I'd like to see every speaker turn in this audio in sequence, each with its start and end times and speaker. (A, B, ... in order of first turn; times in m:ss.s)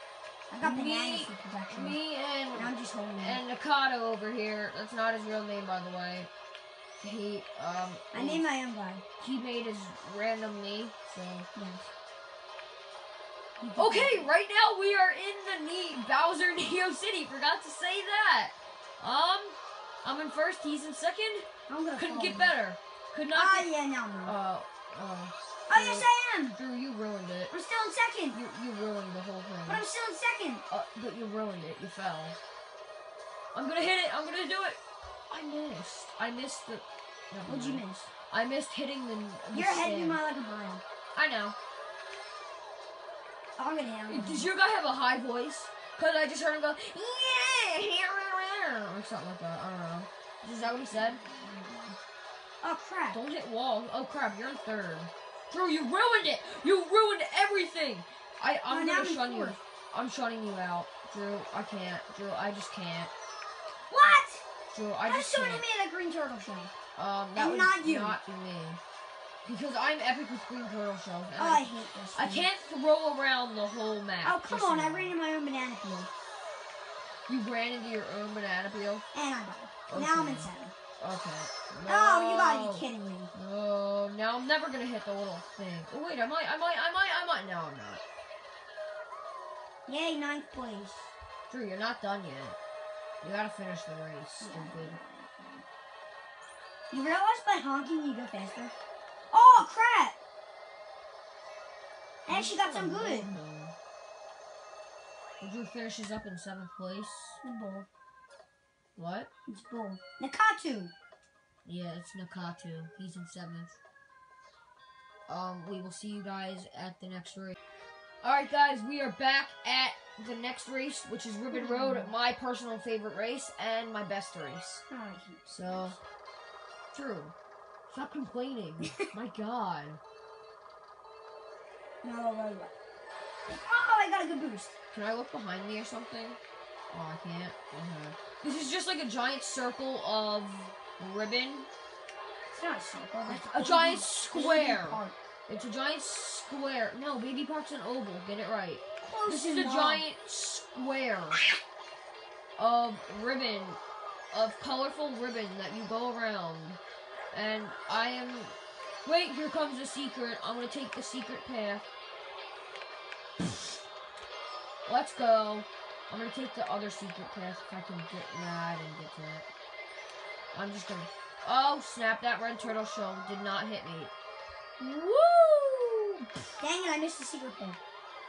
0:00.5-0:02.0 A
0:00.6-0:06.3 B
0:02.5-0:03.4 A
0:07.0-0:08.4 B
0:08.1-0:09.0 A
0:09.2-0:11.5 B
0:11.6-0:11.9 A
0:13.6-0:14.3 A
0:13.8-0:23.7 B
0:21.7-0:22.6 A
0:23.3-0:24.4 A
0:24.2-0:27.6 B
0:25.7-0:26.6 A
0:27.5-0:28.4 A
0:28.3-0:29.8 B
0:29.7-0:30.6 A
0:30.7-0:32.4 B
0:33.5-0:34.8 B
0:35.3-0:40.2 B
0:37.5-0:38.1 A
0:39.5-0:40.8 A
0:41.2-0:41.6 B
0:43.6-0:44.5 A
0:44.1-0:51.2 B
0:50.6-0:52.0 A
0:52.6-0:53.2 A
0:53.1-1:03.1 B
0:58.7-0:59.6 A
1:03.9-1:04.4 A
1:04.7-1:05.6 B
1:05.0-1:06.7 A
1:07.0-1:08.8 B
1:07.4-1:08.2 A
1:09.4-1:15.1 B
1:11.4-1:12.5 A
1:14.2-1:16.1 A
1:17.3-1:19.0 B
1:19.1-1:20.7 A
1:19.9-1:28.0 B
1:21.9-1:23.3 A
1:29.9-1:31.2 A
1:31.5-1:32.6 B
1:33.2-1:35.0 B
1:34.4-1:35.7 A
1:36.9-1:38.7 A
1:39.3-1:40.2 A
1:42.2-1:43.3 A
1:42.3-1:43.8 B
1:45.4-1:47.4 B
1:47.4-1:47.9 A
1:49.0-1:49.3 B
1:49.5-1:50.9 A
1:51.7-1:53.8 B
1:55.3-1:57.6 B
1:58.2-2:04.8 B
2:01.5-2:02.1 A
2:04.9-2:06.0 A
2:05.5-2:06.0 B
2:06.9-2:07.3 B
2:07.9-2:10.0 B
2:12.0-2:12.7 A
2:13.5-2:14.7 A
2:14.9-2:16.4 B
2:16.9-2:21.7 B
2:22.5-2:25.2 A
2:23.3-2:31.4 B
2:29.0-2:30.0 A
2:32.6-2:33.8 B
2:34.3-2:36.8 B
2:37.3-2:41.9 B
2:44.9-2:49.5 B
2:50.5-2:54.1 B
2:54.8-2:56.2 B
2:56.6-2:57.8 A